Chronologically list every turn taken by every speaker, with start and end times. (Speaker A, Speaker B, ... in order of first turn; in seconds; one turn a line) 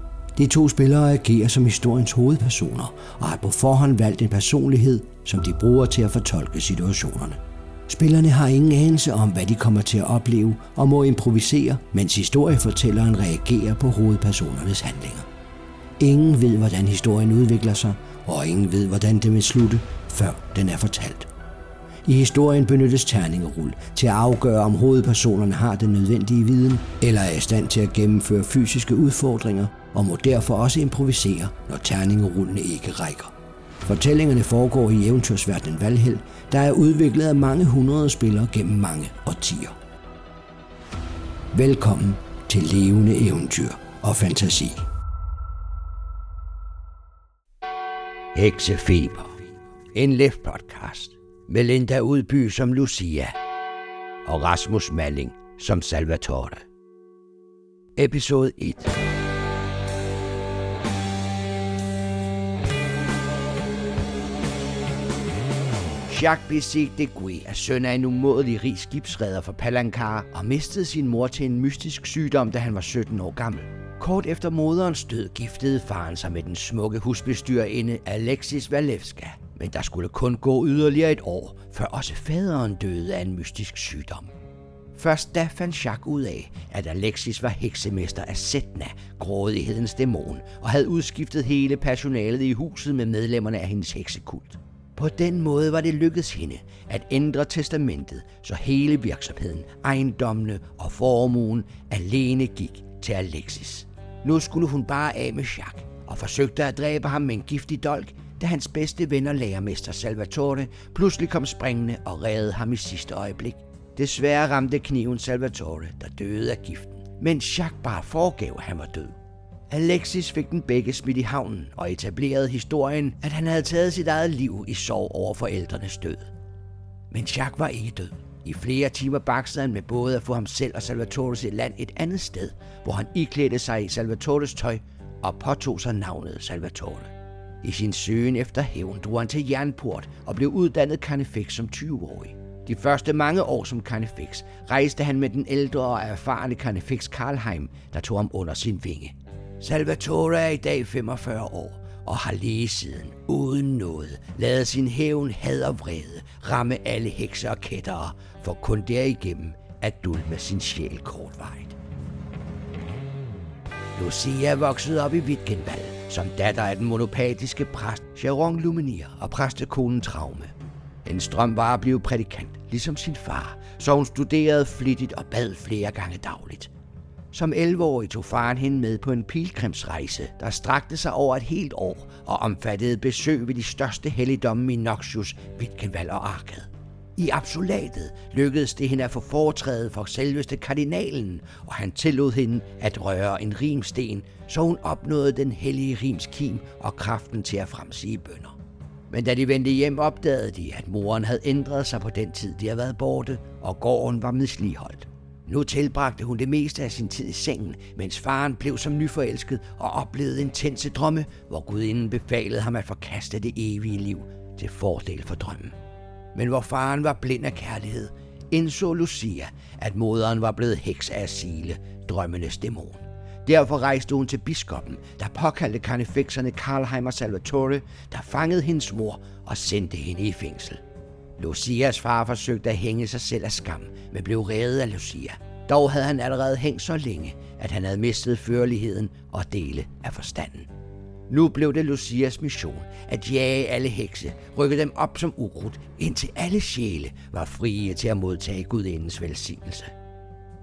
Speaker A: 0.4-15.3
Speaker A: 16.0-21.3
Speaker A: 22.1-33.3
Speaker A: 33.9-39.8
Speaker A: 41.5-44.8
Speaker A: 48.4-49.3
Speaker A: 49.9-53.4
Speaker A: 54.2-56.6
Speaker A: 58.0-58.9
Speaker A: 66.1-84.3
Speaker A: 85.0-119.1
Speaker A: 119.7-126.3
Speaker A: 127.1-137.1
Speaker A: 137.6-161.8
Speaker A: 163.9-170.5
Speaker A: 171.1-176.7
Speaker A: 177.3-198.6
Speaker A: 199.1-215.7
Speaker A: 216.3-230.8
Speaker A: 231.4-240.7
Speaker A: 241.3-249.9